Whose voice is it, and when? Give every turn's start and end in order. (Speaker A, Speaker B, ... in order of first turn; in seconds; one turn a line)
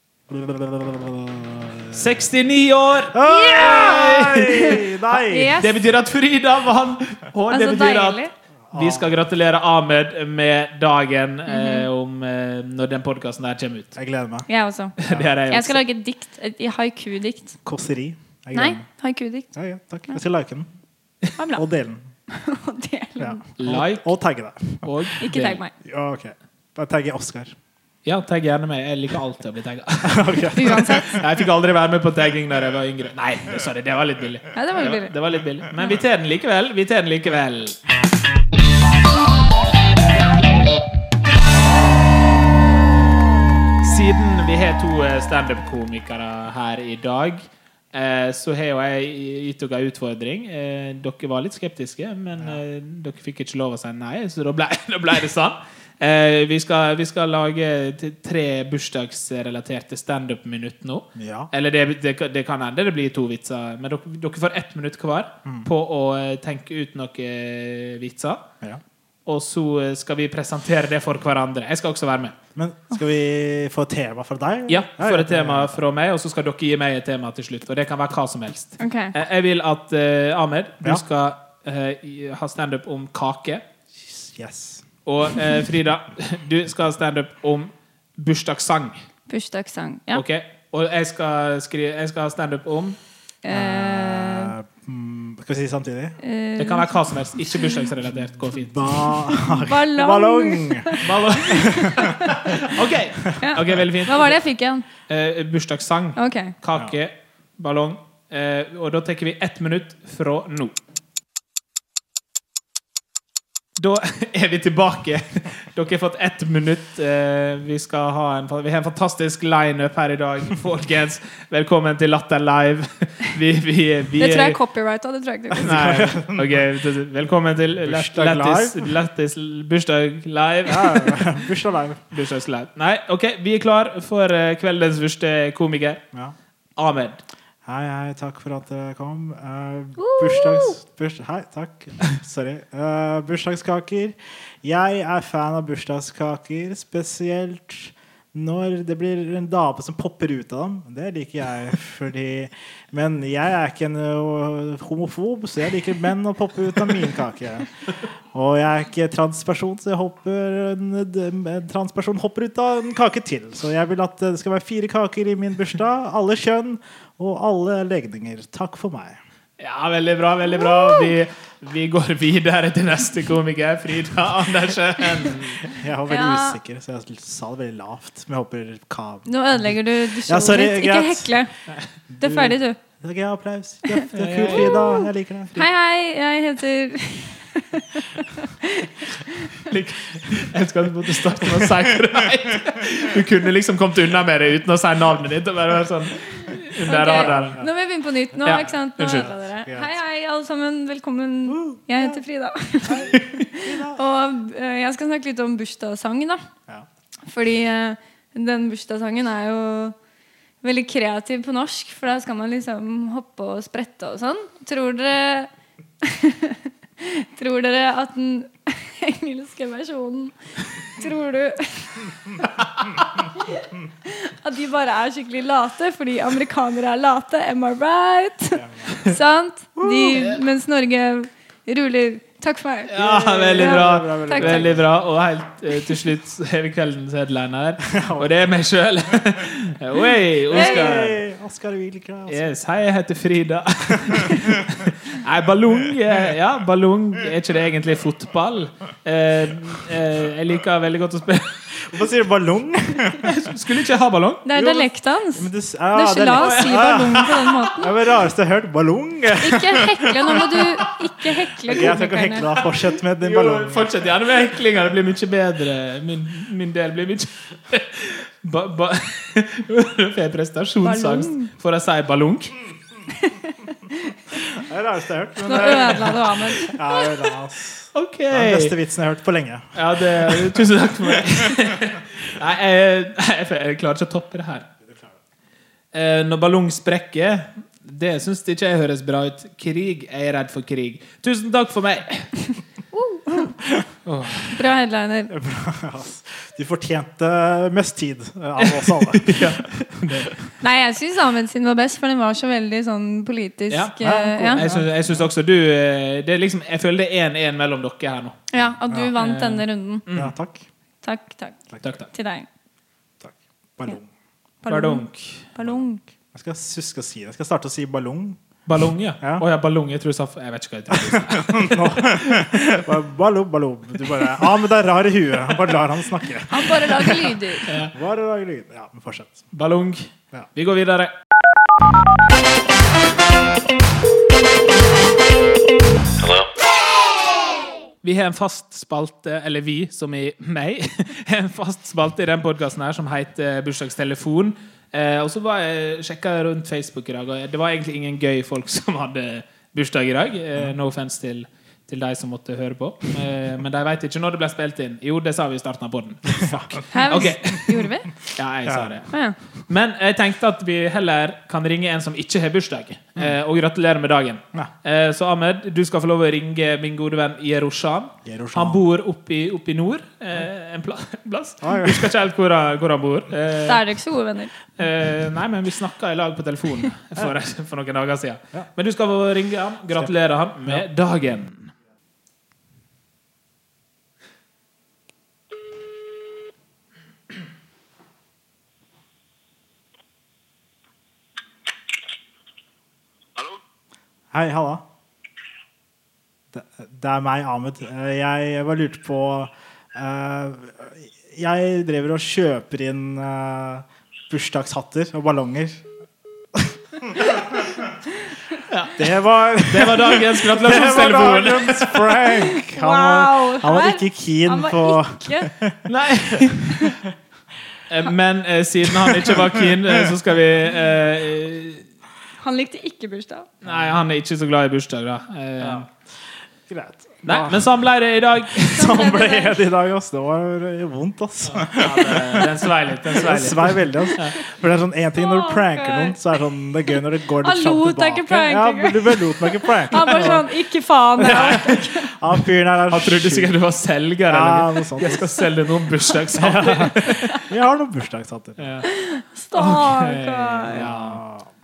Speaker A: 0.3-2.0
Speaker B: 1.9-3.1
Speaker A: 3.1-5.6
Speaker C: 3.2-5.7
Speaker B: 3.8-4.7
Speaker B: 5.6-8.2
Speaker C: 7.5-8.3
Speaker A: 8.7-9.1
Speaker B: 8.7-13.9
Speaker C: 11.5-11.9
Speaker A: 13.9-14.5
Speaker C: 14.5-14.9
Speaker B: 15.0-15.8
Speaker A: 15.0-15.3
Speaker C: 15.5-17.6
Speaker A: 17.6-18.8
Speaker C: 18.5-19.5
Speaker A: 19.5-20.7
Speaker C: 21.3-21.6
Speaker A: 21.5-22.1
Speaker C: 22.3-23.4
Speaker A: 23.2-24.9
Speaker B: 23.6-24.1
Speaker B: 24.8-25.6
Speaker C: 25.2-25.7
Speaker A: 25.8-27.6
Speaker B: 28.0-37.8
Speaker A: 30.0-31.2
Speaker C: 30.5-31.2
Speaker C: 34.5-35.1
Speaker B: 43.8-68.4
Speaker A: 61.1-61.5
Speaker B: 69.2-72.3
Speaker A: 72.5-75.8
Speaker B: 74.7-83.6
Speaker C: 78.8-79.1
Speaker A: 83.9-84.8
Speaker B: 85.0-89.0
Speaker C: 89.3-90.2
Speaker B: 90.1-93.0
Speaker C: 93.4-94.5
Speaker A: 93.5-96.2
Speaker C: 96.2-97.0
Speaker B: 96.6-99.0
Speaker C: 97.5-97.9
Speaker A: 98.5-102.3
Speaker C: 99.1-102.6
Speaker B: 101.0-104.4
Speaker C: 103.4-104.8
Speaker B: 105.1-110.8
Speaker C: 106.2-106.5
Speaker B: 113.8-124.6
Speaker C: 124.2-125.8
Speaker A: 125.5-126.5
Speaker B: 125.6-131.3
Speaker A: 127.8-128.9
Speaker A: 130.7-132.0
Speaker B: 132.1-136.0
Speaker B: 136.8-137.2
Speaker A: 137.6-157.7
Speaker C: 140.0-140.8
Speaker A: 158.3-169.2
Speaker B: 169.6-175.6
Speaker C: 170.5-171.1
Speaker A: 175.7-179.3
Speaker C: 176.1-176.6
Speaker C: 179.3-181.5
Speaker A: 180.3-181.3
Speaker A: 182.1-185.6
Speaker C: 182.2-182.8
Speaker C: 183.9-185.0
Speaker B: 184.1-185.0
Speaker C: 185.5-189.7
Speaker B: 189.6-197.6
Speaker C: 196.8-206.4
Speaker A: 197.1-197.7
Speaker B: 198.4-199.3
Speaker A: 198.4-199.9
Speaker A: 201.5-202.2
Speaker A: 202.8-204.0
Speaker B: 203.1-203.5
Speaker C: 207.2-209.9
Speaker C: 210.6-215.5
Speaker C: 216.0-222.0
Speaker C: 223.3-232.9
Speaker A: 228.5-228.9
Speaker A: 229.8-230.3
Speaker B: 230.1-230.4
Speaker B: 232.9-241.2
Speaker A: 232.9-234.9
Speaker C: 233.5-234.8
Speaker A: 237.9-238.3
Speaker A: 240.5-242.5
Speaker C: 240.5-241.0
Speaker B: 242.3-251.6
Speaker A: 244.1-244.4
Speaker A: 251.8-253.3
Speaker B: 253.2-254.4
Speaker C: 254.4-257.9
Speaker A: 254.5-260.9
Speaker B: 256.3-257.0
Speaker C: 259.4-262.5
Speaker A: 261.6-264.1
Speaker B: 262.6-272.6
Speaker C: 270.8-271.5
Speaker C: 273.1-274.4
Speaker A: 274.3-281.5
Speaker C: 275.4-277.2
Speaker B: 277.9-278.7
Speaker B: 279.7-284.7
Speaker B: 285.9-292.4
Speaker C: 292.9-293.5
Speaker B: 294.0-294.6
Speaker C: 294.5-295.3
Speaker A: 295.3-299.6
Speaker B: 298.6-300.4
Speaker C: 300.6-304.6
Speaker B: 303.7-308.4
Speaker A: 304.0-305.3
Speaker C: 308.5-310.1
Speaker B: 309.1-310.3
Speaker A: 310.1-310.6
Speaker C: 311.0-312.5
Speaker B: 311.8-312.1
Speaker A: 313.2-314.1
Speaker C: 314.6-316.0
Speaker B: 314.7-315.4
Speaker A: 315.6-318.4
Speaker B: 318.6-322.8
Speaker A: 320.9-329.4
Speaker C: 326.5-327.6
Speaker B: 327.7-327.9
Speaker B: 329.5-331.1
Speaker B: 338.0-359.1
Speaker A: 356.3-357.2
Speaker C: 356.9-358.1
Speaker A: 358.6-359.0
Speaker C: 359.1-359.4
Speaker B: 359.7-373.8
Speaker A: 368.2-368.8
Speaker A: 371.6-372.1
Speaker C: 373.6-374.5
Speaker B: 374.8-381.7
Speaker A: 394.3-394.8
Speaker A: 396.5-405.8
Speaker A: 406.5-407.7
Speaker B: 408.7-412.4
Speaker A: 408.9-415.8
Speaker C: 412.5-415.5
Speaker B: 415.9-417.0
Speaker B: 417.9-421.8
Speaker A: 419.0-419.6
Speaker C: 422.4-423.5
Speaker B: 423.6-425.9
Speaker A: 423.6-423.9
Speaker A: 425.6-425.9
Speaker A: 426.7-427.7
Speaker B: 427.2-428.9
Speaker A: 428.5-440.4
Speaker C: 428.7-429.6
Speaker B: 431.4-434.4
Speaker C: 435.1-436.1
Speaker C: 437.4-442.1
Speaker B: 441.2-441.9
Speaker A: 441.2-443.6
Speaker B: 442.9-447.4
Speaker A: 444.3-445.4
Speaker A: 446.3-448.6
Speaker B: 448.6-448.9
Speaker C: 448.8-450.8
Speaker B: 449.5-451.2
Speaker A: 450.7-451.5